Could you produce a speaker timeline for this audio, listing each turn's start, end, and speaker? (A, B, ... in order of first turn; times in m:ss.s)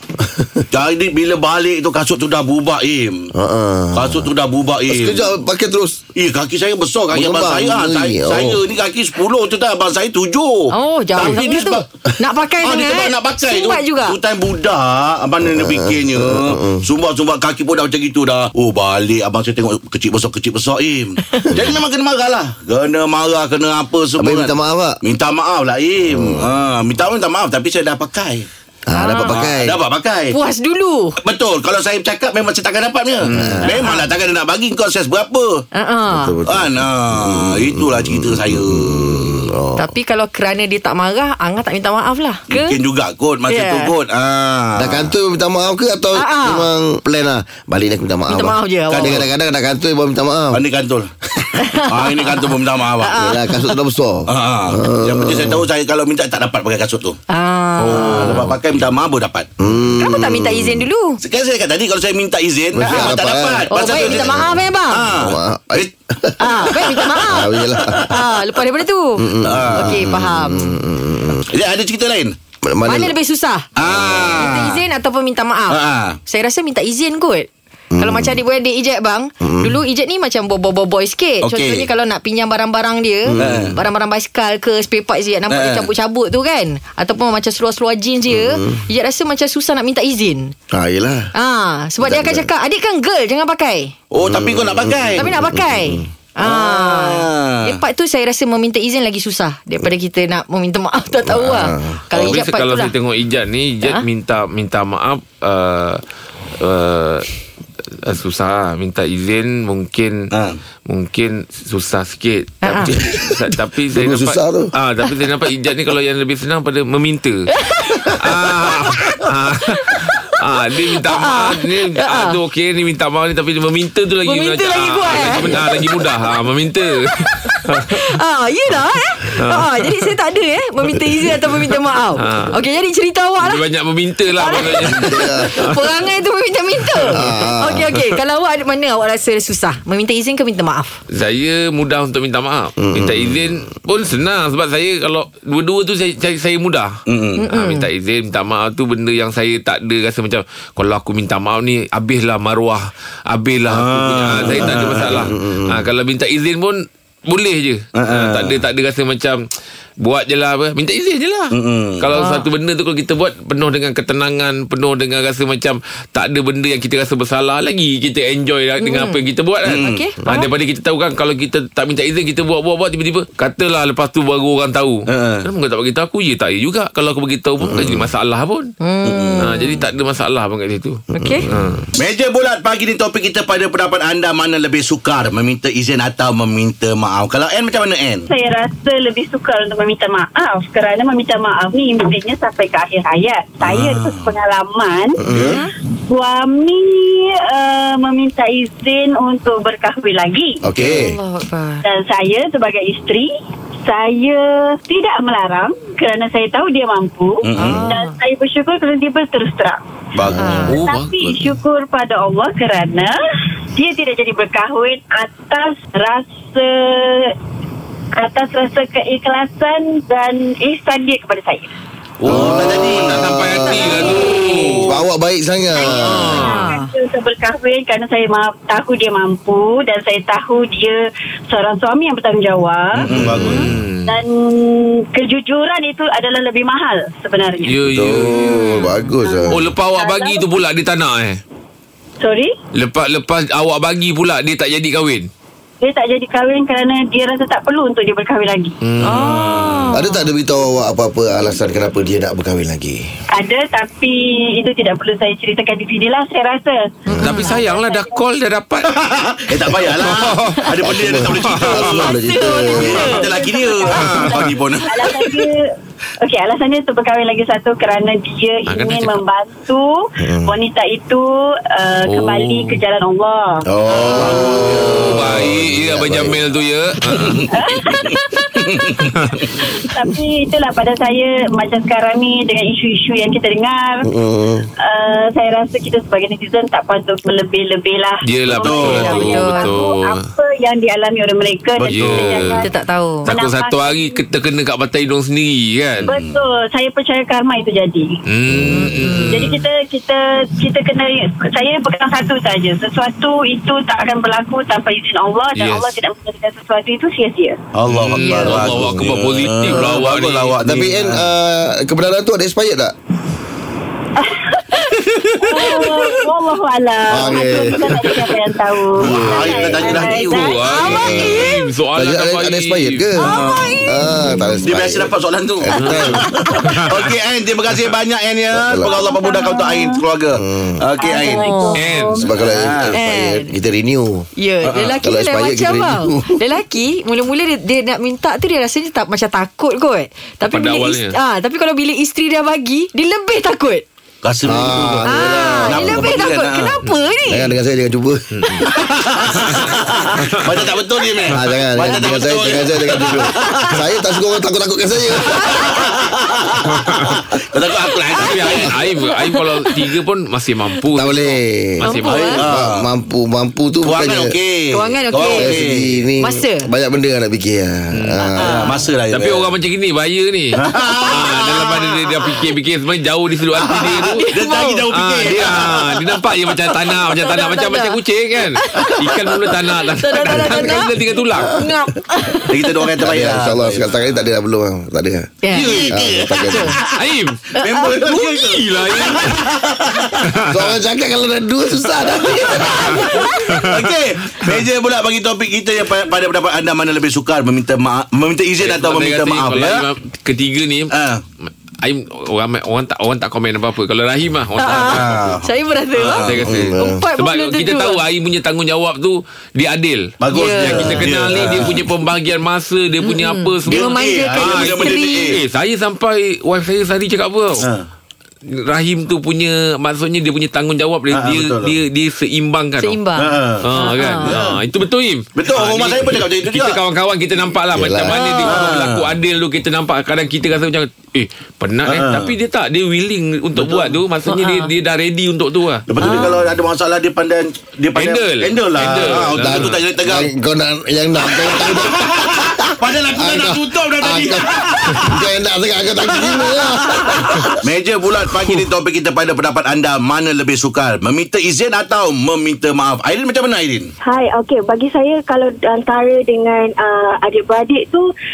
0:00.2-0:00.6 A
0:00.7-0:03.3 B
0:03.4-0:04.3 A
0:03.9-0:05.3 B
0:04.9-0:06.0 A
0:06.2-0:11.9 B
0:07.1-0:08.6 A
0:10.7-0:14.2 C
0:12.6-0:24.5 B
0:15.4-0:16.9 A
0:24.2-0:25.0 A
0:25.0-0:28.5 B
0:26.1-0:26.5 A
0:28.9-0:29.8 A
0:29.0-0:29.3 C
0:29.2-0:30.4 B
0:30.3-0:31.2 C
0:31.2-0:35.6 B
0:33.3-0:33.7 A
0:33.6-0:34.0 C
0:35.7-0:36.4 C
0:36.1-0:39.9 A
0:36.4-0:39.5 B
0:39.8-0:42.8 C
0:42.5-0:45.1 B
0:43.5-0:43.9 C
0:44.8-0:50.6 A
0:46.1-0:46.7 C
0:48.3-0:49.2 C
0:48.9-0:49.2 B
0:50.5-0:53.2 B
0:51.6-0:53.5 C
0:53.1-0:55.6 A
0:54.3-0:57.2 B
0:57.3-0:58.5 C
0:57.8-0:59.5 B
0:57.9-0:58.5 A
0:59.6-1:00.9 A
1:00.0-1:01.2 C
1:01.2-1:05.9 B
1:02.7-1:04.6 A
1:03.7-1:05.1 C
1:05.1-1:08.2 A
1:06.4-1:10.8 C
1:09.2-1:11.4 A
1:09.4-1:09.9 B
1:11.5-1:12.4 B
1:12.7-1:13.1 A
1:12.8-1:13.7 C
1:13.8-1:14.8 B
1:13.8-1:14.4 A
1:14.4-1:30.5 C
1:15.7-1:16.2 B
1:17.9-1:18.4 A
1:19.4-1:19.8 A
1:21.4-1:21.9 B
1:23.3-1:23.8 A
1:23.4-1:23.8 B
1:25.5-1:25.9 B
1:28.3-1:28.8 A
1:30.7-1:31.3 A
1:31.4-1:33.9 C
1:32.0-1:32.5 A
1:34.1-1:35.2 B
1:34.2-1:36.1 A
1:35.2-1:42.9 C
1:36.4-1:37.8 B
1:41.2-1:42.0 A
1:42.1-1:46.0 D
1:46.6-1:47.3 D
1:48.0-1:50.3 D
1:50.3-1:50.6 B
1:50.9-1:57.5 D
1:52.6-1:52.9 C
1:53.0-1:53.4 A
1:53.9-1:54.7 A
1:57.6-1:58.0 C
1:58.2-2:08.0 D
2:01.0-2:02.4 C
2:04.3-2:05.8 C
2:05.3-2:05.6 A
2:07.3-2:13.6 C
2:09.4-2:10.1 D
2:12.2-2:12.6 D
2:13.4-2:15.8 D
2:14.4-2:21.0 C
2:14.8-2:15.7 A
2:17.1-2:17.9 A
2:21.1-2:27.0 D
2:22.8-2:23.5 A
2:27.1-2:27.4 B
2:27.4-2:27.9 C
2:27.5-2:39.4 D
2:33.7-2:35.3 B
2:34.6-2:35.8 A
2:37.9-2:38.6 B
2:40.0-2:58.7 D
2:41.5-2:42.1 B
2:42.1-2:42.5 C
2:48.8-2:49.2 C
2:49.7-2:50.0 B
2:49.8-2:50.5 C
2:55.1-2:55.5 B
2:57.7-2:58.0 A
2:58.8-2:59.8 C
2:59.0-2:59.5 B
2:59.4-3:01.9 D
3:01.1-3:01.5 C
3:01.2-3:01.5 A
3:01.9-3:08.3 B
3:08.3-3:15.2 E
3:13.6-3:14.4 B
3:15.2-3:15.6 A
3:15.3-3:15.6 B
3:15.4-3:15.7 C
3:16.1-3:20.6 E
3:20.6-3:21.1 A
3:20.8-3:21.1 B
3:20.8-3:21.8 C
3:21.8-3:23.3 E
3:23.8-3:29.8 E
3:27.4-3:27.9 B
3:27.6-3:28.2 C
3:30.2-3:30.8 B
3:30.2-3:30.6 A
3:30.4-3:30.8 C
3:30.7-3:31.6 D
3:30.8-3:33.2 E
3:33.8-3:37.3 E
3:38.2-3:41.7 E
3:42.2-3:43.4 B
3:42.3-3:46.4 A
3:42.4-3:44.9 D
3:43.7-3:44.7 E
3:44.4-3:44.8 B
3:45.8-3:53.1 E
3:45.9-3:46.7 D
3:46.4-3:46.9 C
3:53.0-3:53.9 B
3:53.1-3:54.2 D
3:54.1-3:57.8 E
3:57.6-3:58.6 D
3:57.9-3:59.6 A
3:59.4-4:00.5 E
3:59.5-4:01.4 D
4:02.2-4:02.6 E
4:02.7-4:05.3 D
4:05.8-4:08.8 E
4:08.8-4:09.6 D
4:09.0-4:09.9 B
4:09.0-4:10.3 C
4:09.9-4:13.1 A
4:13.3-4:18.2 E
4:17.1-4:17.4 A
4:17.1-4:17.6 C
4:17.2-4:19.0 D
4:18.8-4:25.2 B
4:19.8-4:20.7 D
4:20.8-4:23.1 A
4:21.2-4:22.2 D
4:22.5-4:25.7 E
4:23.9-4:24.5 D
4:26.2-4:33.6 E
4:28.7-4:29.2 D
4:30.2-4:30.6 A
4:32.0-4:32.8 D
4:33.7-4:35.5 B
4:33.9-4:36.4 A
4:34.1-4:37.5 D
4:37.1-4:39.5 B
4:37.5-4:38.5 E
4:39.6-4:44.1 E
4:44.0-4:44.7 A
4:44.8-4:52.7 E
4:48.2-4:50.3 D
4:48.5-4:49.5 B
4:49.1-4:49.7 C
4:51.8-4:52.6 B
4:51.9-4:52.6 D
4:52.6-4:53.3 C
4:53.2-4:54.2 E
4:53.3-4:56.1 D
4:56.0-4:56.4 B
4:56.1-4:58.2 E
4:58.3-4:59.6 D
4:58.5-4:58.8 B
4:58.7-4:59.4 C
4:59.3-5:07.6 E
5:05.6-5:05.9 D
5:07.8-5:11.2 B
5:07.9-5:10.6 D
5:08.2-5:08.6 C
5:10.6-5:12.9 A
5:14.2-5:14.6 E
5:15.3-5:15.7 B
5:15.4-5:20.8 E
5:17.1-5:17.9 A
5:19.0-5:20.5 B
5:19.0-5:19.9 A
5:20.2-5:23.1 D
5:20.6-5:21.6 C
5:20.9-5:23.3 A
5:23.2-5:23.9 B
5:23.2-5:24.6 C
5:23.9-5:25.1 A
5:24.6-5:31.5 B
5:25.6-5:26.3 A
5:25.8-5:27.1 D
5:28.5-5:28.9 A
5:28.8-5:30.0 E
5:30.4-5:30.8 A
5:31.0-5:32.2 E
5:31.2-5:31.8 C
5:31.8-5:32.2 D
5:32.2-5:34.3 A
5:32.3-5:33.0 B
5:32.9-5:33.5 C
5:34.4-5:43.8 C
5:34.6-5:35.0 B
5:35.0-5:36.4 A
5:40.5-5:41.2 D
5:44.2-5:46.8 B
5:44.4-5:46.2 A
5:45.1-5:47.5 C
5:47.3-5:48.6 A
5:48.3-5:48.7 D
5:48.6-5:53.8 B
5:49.4-5:50.6 D
5:51.3-5:55.7 A
5:55.5-5:58.7 B
5:56.8-5:57.2 D
5:58.2-6:02.4 D
5:59.0-5:59.7 C
6:01.0-6:01.8 A
6:01.8-6:02.4 C
6:02.1-6:02.9 B
6:02.4-6:04.3 A
6:03.8-6:05.9 B
6:04.7-6:05.6 C
6:05.3-6:08.6 A
6:06.2-6:06.7 C
6:07.9-6:08.3 D
6:08.4-6:08.7 C
6:08.4-6:09.5 B
6:09.1-6:10.6 D
6:10.6-6:11.7 B
6:11.1-6:14.3 D
6:13.6-6:16.0 B
6:14.2-6:14.8 C
6:14.9-6:21.5 D
6:17.1-6:18.0 C
6:18.6-6:19.0 C
6:20.0-6:20.9 C
6:21.5-6:22.6 C
6:22.5-6:24.0 B
6:23.0-6:25.3 A
6:25.4-6:25.9 C
6:25.5-6:27.0 B
6:25.9-6:26.8 A
6:26.4-6:26.8 C
6:26.9-6:29.4 D
6:27.5-6:28.5 C
6:27.6-6:30.2 B
6:30.3-6:30.7 D
6:30.5-6:33.2 A
6:32.5-6:39.9 B
6:32.9-6:33.9 D
6:38.6-6:40.9 D
6:40.9-6:41.2 B
6:41.8-6:45.3 D
6:44.6-6:48.0 C
6:44.6-6:46.6 B
6:46.0-6:57.7 D
6:46.5-6:47.0 A
6:50.2-6:51.9 B
6:50.3-6:51.0 C
6:53.0-6:55.3 C
6:53.7-6:55.4 B
6:57.6-6:57.9 B
6:58.5-7:03.0 D
7:01.1-7:01.8 B
7:02.8-7:04.4 C
7:03.2-7:03.7 B
7:03.6-7:16.2 D
7:04.2-7:04.6 B
7:05.4-7:06.8 B
7:07.7-7:08.2 A
7:08.1-7:08.7 C
7:08.4-7:09.1 B
7:11.9-7:12.3 B
7:13.6-7:14.0 B
7:14.3-7:14.7 C
7:15.9-7:20.3 B
7:18.0-7:19.8 D
7:19.4-7:27.6 A
7:21.2-7:25.2 B
7:26.1-7:33.9 B
7:34.0-7:38.1 F